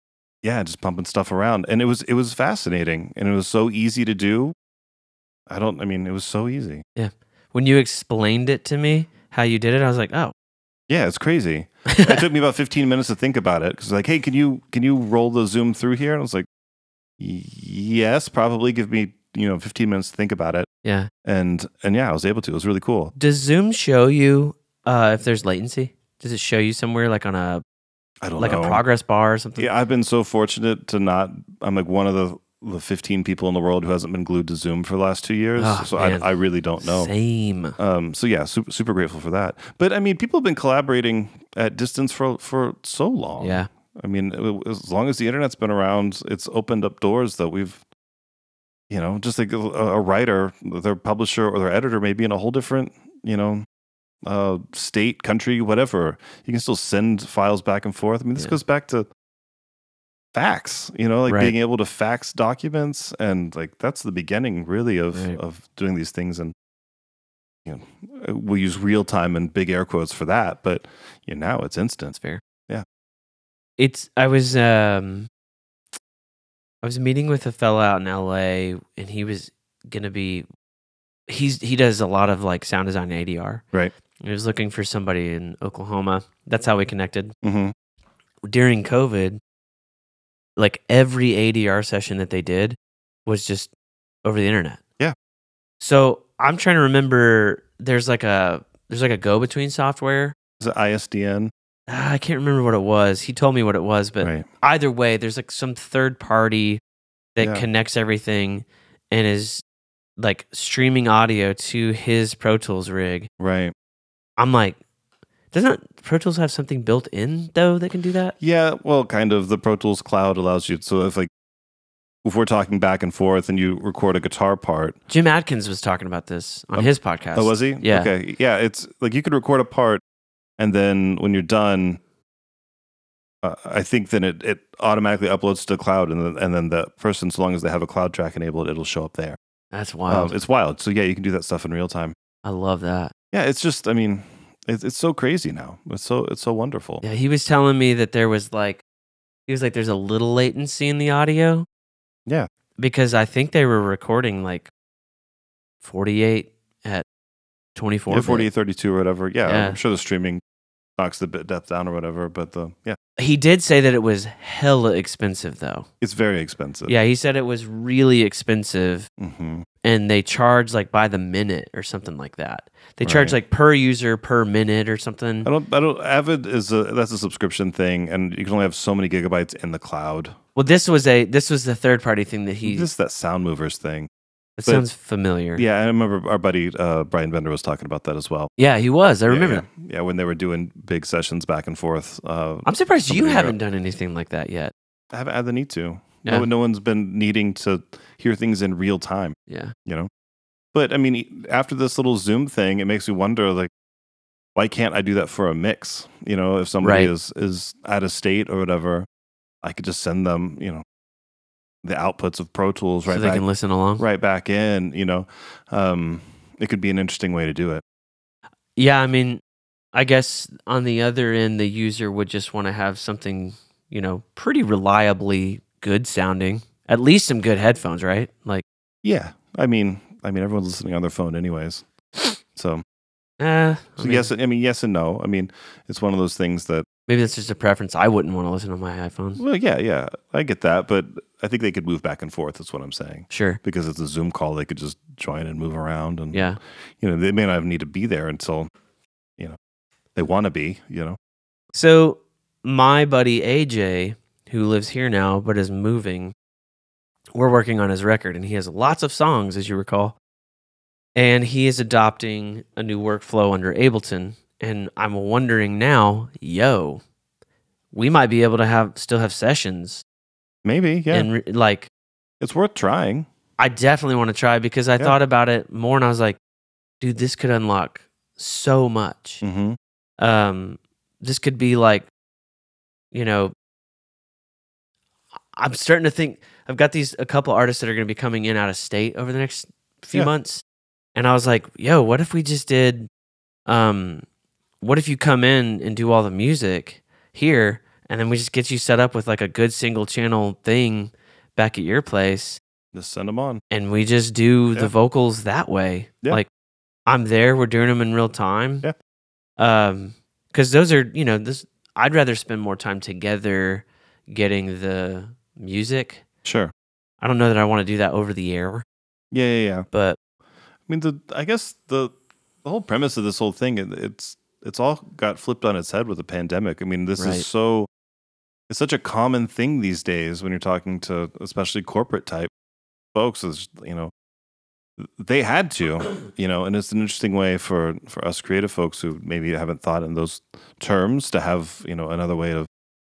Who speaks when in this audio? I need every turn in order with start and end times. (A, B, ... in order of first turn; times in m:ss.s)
0:00.4-0:04.5 A
0:05.5-0:06.8 A
0:07.0-0:10.3 B
0:10.9-0:16.5 A
0:11.9-0:12.2 B
0:17.2-0:20.7 A
0:20.8-0:21.1 B
0:21.2-0:23.1 A
0:23.2-0:27.6 B
0:28.2-0:28.8 A
0:28.4-0:29.7 B
0:29.6-0:37.1 A
0:35.6-0:37.8 B
0:37.8-0:47.8 A
0:43.4-0:43.7 B
0:48.9-0:53.6 A
0:54.2-0:59.1 A
1:00.3-1:06.5 A
1:01.3-1:01.6 B
1:05.1-1:05.4 B
1:07.6-1:12.2 A
1:12.1-1:12.4 B
1:13.8-1:15.3 B
1:16.8-1:20.4 B
1:21.3-1:23.6 B
1:24.2-1:27.3 B
1:27.4-1:27.7 A
1:28.5-1:29.4 B
1:30.6-1:33.7 B
1:34.2-1:34.8 B
1:35.8-1:40.3 B
1:40.6-1:41.5 A
1:41.9-1:46.8 B
1:44.2-1:44.4 A
1:47.4-1:49.6 B
1:47.4-1:47.6 A
1:50.2-1:53.3 B
1:53.4-1:53.7 A
1:54.4-1:54.8 B
1:55.5-1:58.3 B
1:58.4-2:01.3 A
2:02.2-2:05.0 A
2:05.1-2:08.1 B
2:06.7-2:10.0 A
2:10.6-2:12.0 A
2:13.4-2:19.4 A
2:19.7-2:20.3 B
2:20.1-2:22.1 A
2:22.4-2:23.1 B
2:23.3-2:27.0 A
2:27.0-2:28.8 B
2:29.5-2:31.6 B
2:32.8-2:34.7 B
2:35.8-2:37.0 B
2:37.7-2:38.5 B
2:38.1-2:40.4 A
2:39.4-2:39.8 B
2:41.0-2:43.0 A
2:43.2-2:45.9 B
2:46.0-2:46.9 A
2:46.9-2:49.1 B
2:49.2-2:49.6 A
2:49.8-2:55.5 B
2:53.0-2:53.4 A
2:55.4-3:00.3 A
3:00.5-3:02.9 B
3:02.6-3:04.1 A
3:04.6-3:05.6 B
3:05.6-3:08.5 A
3:08.6-3:09.6 B
3:09.3-3:13.6 A
3:12.6-3:14.7 B
3:15.1-3:20.1 A
3:19.5-3:19.7 B
3:20.7-3:23.7 A
3:24.5-3:29.1 A
3:26.8-3:27.1 B
3:29.6-3:30.8 A
3:31.8-3:33.4 A
3:33.0-3:34.0 B
3:34.0-3:37.8 A
3:38.8-3:39.4 B
3:39.9-3:48.6 B
3:49.0-3:51.8 A
3:52.5-3:52.8 A
3:53.4-3:54.3 B
3:54.0-3:56.8 A
3:57.1-3:59.4 B
3:59.4-4:08.7 A
4:03.3-4:03.6 B
4:06.3-4:06.6 B
4:10.2-4:11.2 A
4:11.7-4:16.3 B
4:17.3-4:20.2 B
4:21.1-4:27.0 B
4:27.9-4:30.0 B
4:30.6-4:31.3 A
4:31.1-4:31.9 B
4:32.4-4:33.3 A
4:33.6-4:36.4 B
4:37.0-4:39.4 B
4:39.4-4:39.8 A
4:40.2-4:42.1 B
4:43.1-4:43.5 B
4:45.6-4:50.6 B
4:51.1-4:53.1 B
4:53.7-4:54.2 B
4:54.8-5:02.6 B
5:02.9-5:03.6 A
5:03.7-5:06.5 B
5:07.0-5:08.9 B
5:09.6-5:16.2 B
5:16.4-5:16.7 A
5:17.2-5:18.8 B
5:19.3-5:19.9 A
5:19.9-5:20.2 B
5:20.9-5:27.9 A
5:27.2-5:27.4 B
5:28.7-5:32.5 A
5:33.1-5:34.1 A
5:35.0-5:42.7 A